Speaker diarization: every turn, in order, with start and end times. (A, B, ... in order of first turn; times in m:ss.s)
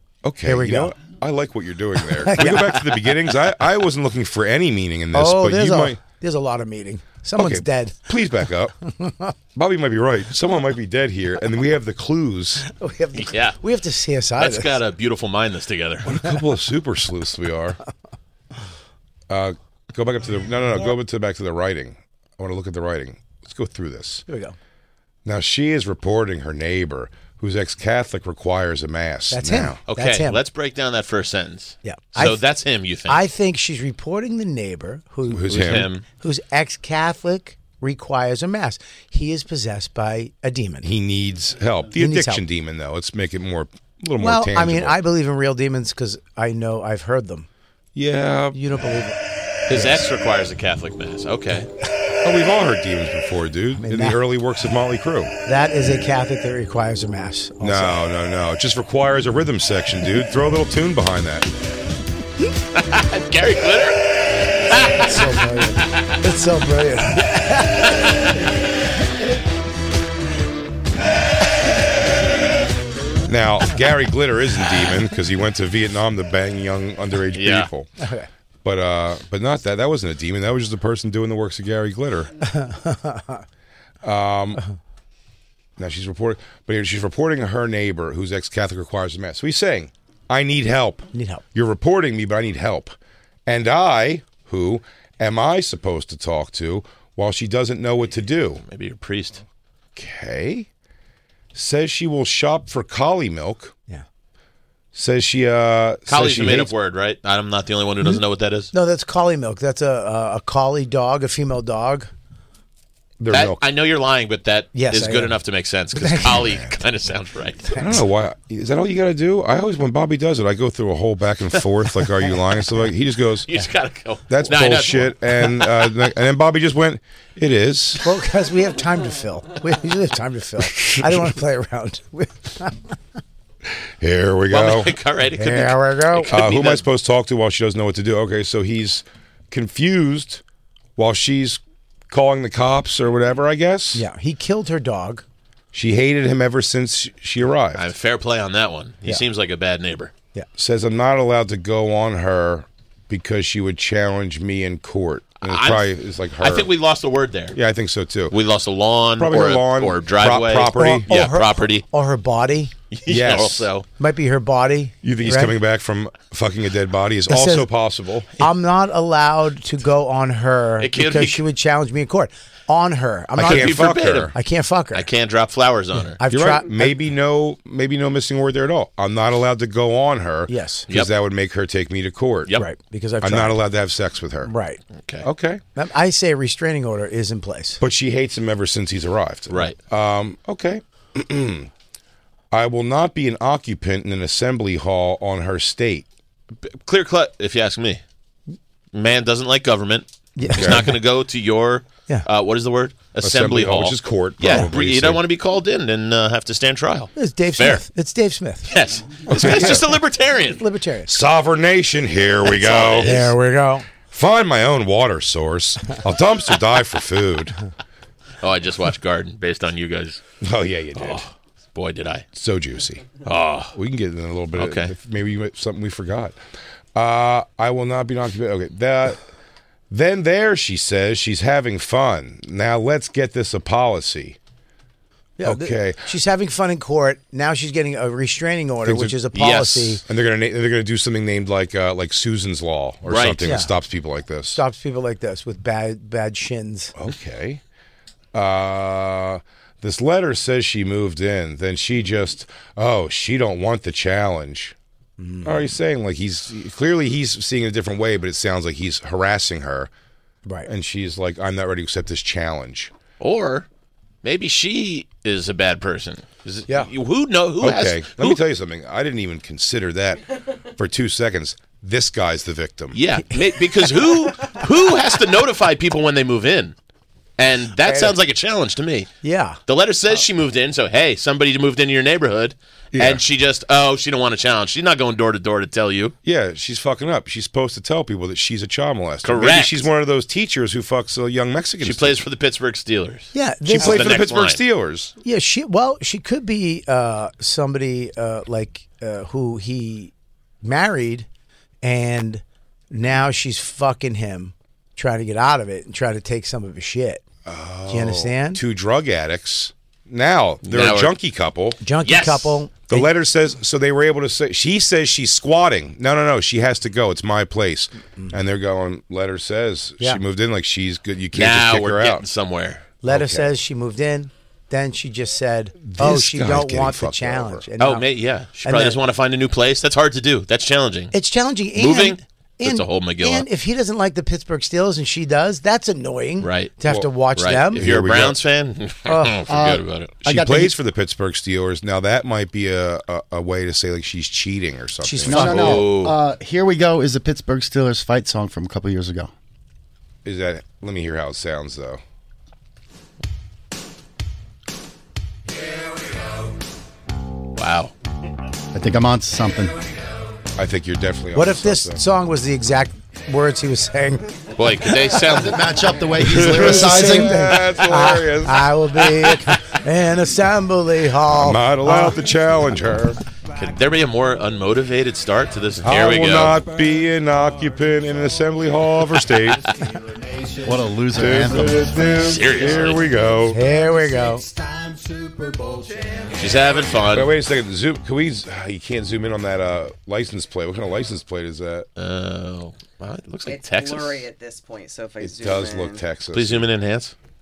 0:00.2-0:06.0 A
0:00.4-0:01.0 B
0:02.2-0:02.9 B
0:05.1-0:08.2 B
0:07.4-0:08.7 A
0:08.8-0:09.3 B
0:09.5-0:12.6 A
0:12.6-0:14.8 B
0:13.2-0:13.6 C
0:14.4-0:16.2 C
0:16.0-0:17.8 A
0:19.3-0:24.2 A
0:24.3-0:24.6 B
0:25.2-0:29.8 A
0:29.3-0:30.4 B
0:29.9-0:33.2 C
0:31.8-0:32.4 B
0:33.1-0:40.9 B
0:35.3-0:35.9 A
0:35.5-0:36.0 C
0:40.8-0:45.0 A
0:41.9-0:42.4 B
0:44.2-0:47.5 B
0:47.9-0:48.6 A
0:48.5-0:49.2 B
0:49.7-0:51.7 C
0:49.7-0:50.0 B
0:52.2-0:55.3 A
0:53.8-0:54.2 B
0:55.4-0:58.0 B
0:57.6-1:01.5 A
1:02.7-1:05.3 C
1:04.7-1:08.1 B
1:13.2-1:17.9 A
1:17.3-1:17.7 C
1:18.0-1:18.3 B
1:18.6-1:22.3 A
1:22.4-1:23.4 B
1:24.0-1:24.6 A
1:25.8-1:38.6 A
1:31.1-1:31.4 B
1:38.6-1:39.4 C
1:40.0-1:40.7 A
1:41.5-1:43.7 A
1:44.9-1:46.7 A
1:46.1-1:48.7 C
1:48.7-1:52.1 B
1:53.2-1:53.6 A
1:53.3-1:57.8 C
1:54.7-1:55.3 B
1:56.0-1:56.4 B
1:56.2-1:56.8 A
1:57.8-2:03.5 A
2:03.5-2:05.7 C
2:04.3-2:08.0 A
2:08.0-2:13.0 B
2:10.8-2:11.2 A
2:14.0-2:14.9 A
2:14.5-2:16.8 C
2:15.4-2:16.3 B
2:16.3-2:20.4 A
2:21.0-2:24.0 A
2:23.9-2:25.2 B
2:25.7-2:27.9 A
2:27.7-2:30.1 C
2:30.6-2:36.7 A
2:35.4-2:37.6 C
2:37.5-2:38.3 A
2:38.3-2:41.8 C
2:39.2-2:41.1 A
2:40.7-2:42.7 B
2:42.9-2:43.8 C
2:43.0-2:43.7 A
2:44.0-2:45.5 B
2:45.0-2:48.3 A
2:47.3-2:47.7 B
2:48.4-2:55.0 B
2:50.8-2:51.4 C
2:53.4-2:54.3 A
2:53.4-2:54.3 C
2:54.9-2:56.2 C
2:56.2-2:56.9 B
2:56.3-3:02.6 A
3:00.5-3:00.9 B
3:02.6-3:03.6 B
3:03.2-3:04.5 A
3:04.4-3:04.8 B
3:05.0-3:05.3 C
3:05.2-3:05.6 A
3:05.7-3:07.8 B
3:07.8-3:11.7 A
3:09.5-3:09.8 C
3:12.5-3:16.1 A
3:16.6-3:18.0 C
3:18.9-3:27.8 C
3:20.4-3:20.9 B
3:20.6-3:20.8 A
3:23.2-3:25.2 A
3:27.2-3:28.7 B
3:28.6-3:30.6 C
3:29.3-3:29.9 A
3:29.4-3:29.7 B
3:30.5-3:31.1 B
3:31.1-3:33.3 A
3:32.4-3:33.3 C
3:33.0-3:33.8 B
3:34.1-3:37.6 A
3:38.4-3:40.2 C
3:40.4-3:41.3 A
3:41.0-3:42.2 C
3:42.3-3:43.1 A
3:43.2-3:43.7 C
3:43.7-3:46.4 A
3:44.5-3:44.9 C
3:46.9-3:49.2 A
3:49.9-3:54.4 A
3:55.4-4:00.0 B
3:55.4-3:56.1 A
3:58.8-3:59.2 A
3:59.3-4:00.0 C
4:00.0-4:04.6 A
4:03.0-4:03.4 C
4:03.4-4:03.7 B
4:04.5-4:06.9 B
4:07.0-4:07.6 A
4:08.3-4:14.7 A
4:15.2-4:15.6 B
4:15.4-4:19.9 A
4:20.6-4:22.9 A
4:23.2-4:23.7 C
4:24.2-4:28.4 C
4:27.6-4:30.2 A
4:30.8-4:33.0 A
4:32.9-4:36.7 C
4:37.4-4:39.1 C
4:37.8-4:38.1 B
4:39.2-4:39.6 B
4:39.7-4:46.1 C
4:42.9-4:43.2 A
4:46.2-4:52.2 A
4:49.2-4:49.8 C
4:51.8-4:54.6 C
4:53.3-4:54.1 B
4:53.7-4:55.1 A
4:55.2-5:00.1 B
5:00.6-5:01.3 B
5:01.8-5:07.2 B
5:07.4-5:11.8 A
5:07.9-5:08.6 B
5:10.6-5:11.1 C
5:11.8-5:13.1 B
5:12.0-5:12.6 C
5:12.9-5:22.2 A
5:21.3-5:22.9 C
5:23.0-5:28.0 B
5:23.0-5:23.5 A
5:25.8-5:27.7 A
5:27.8-5:31.1 C
5:28.6-5:29.0 B
5:31.1-5:37.8 B
5:31.7-5:33.5 C
5:36.4-5:36.7 C
5:37.4-5:40.1 C
5:37.8-5:38.4 A
5:39.1-5:39.4 B
5:39.5-5:40.7 D
5:40.2-5:45.8 A
5:45.0-5:45.8 B
5:45.2-5:49.3 D
5:45.4-5:46.1 C
5:50.2-5:52.0 A
5:57.6-5:57.9 C
5:58.7-5:59.8 D
6:00.6-6:02.0 A
6:01.3-6:04.3 B
6:04.6-6:05.7 C
6:05.3-6:07.4 D
6:06.2-6:08.7 A
6:06.5-6:12.2 B
6:11.3-6:13.2 A
6:13.6-6:16.6 C
6:15.8-6:19.6 A
6:20.6-6:21.9 D
6:21.1-6:23.6 A
6:22.2-6:23.0 C
6:23.5-6:24.4 B
6:26.3-6:27.3 C
6:27.1-6:31.9 A
6:32.0-6:34.3 C
6:33.4-6:36.0 E
6:35.2-6:36.7 A
6:36.3-6:37.1 C